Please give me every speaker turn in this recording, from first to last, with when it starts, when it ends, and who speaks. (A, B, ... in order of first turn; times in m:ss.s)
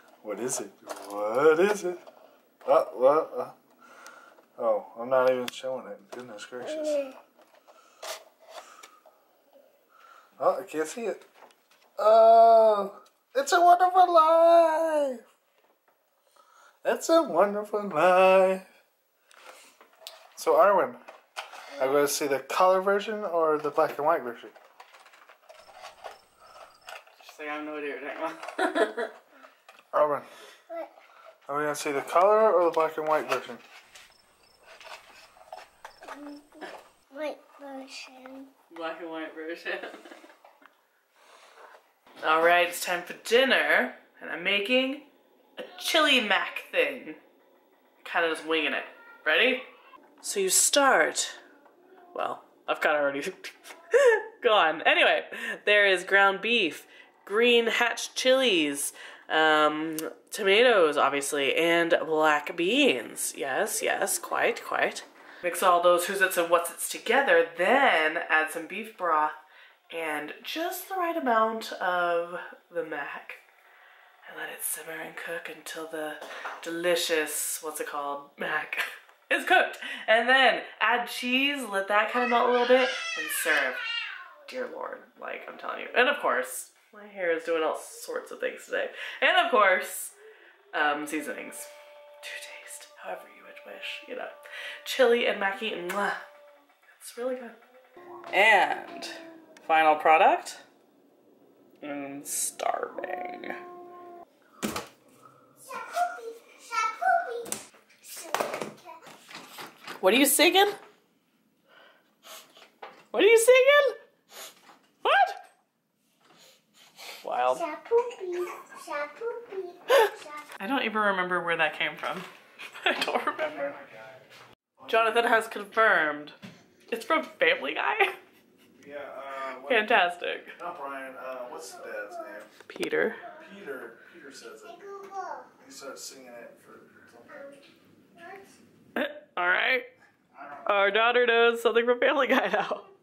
0:00.2-0:02.0 A
0:02.6-0:03.5 A
0:04.6-0:07.1 A
0:06.8-0:07.1 B
0:10.4-0:11.2 A
0:12.0-0:15.2 A
0:16.8-0:18.6 A
0:20.4-0:21.0 A
0:21.8-0:24.5 A
0:27.2-0:29.1 C
0:29.9-0:30.3 A
0:31.5-0:33.6 A
0:36.1-0:38.5 B
0:38.7-0:40.1 C
0:42.2-0:47.2 C
0:48.0-0:49.7 C
0:50.2-0:51.4 C
0:52.1-1:09.4 C
1:09.9-1:13.4 C
1:14.2-1:23.8 C
1:24.4-1:30.2 C
1:30.7-1:31.7 C
1:32.2-1:36.2 C
1:36.9-1:37.6 C
1:38.3-1:40.6 C
1:41.8-1:43.6 C
1:45.6-1:49.0 B
1:50.0-1:50.8 C
1:53.1-1:54.0 C
1:55.0-1:55.4 C
1:57.2-1:57.6 C
1:57.5-2:00.4 B
1:59.9-2:03.8 C
2:03.4-2:04.2 A
2:04.8-2:05.4 A
2:04.9-2:06.4 C
2:06.9-2:08.2 C
2:08.7-2:10.0 A
2:09.6-2:10.5 C
2:10.6-2:12.5 A
2:12.6-2:13.2 C
2:13.2-2:13.5 B
2:13.4-2:14.8 A
2:14.6-2:15.5 B
2:15.6-2:17.5 A
2:17.3-2:17.6 B
2:18.1-2:18.6 B
2:18.9-2:19.9 C
2:20.3-2:20.7 A
2:20.6-2:22.9 C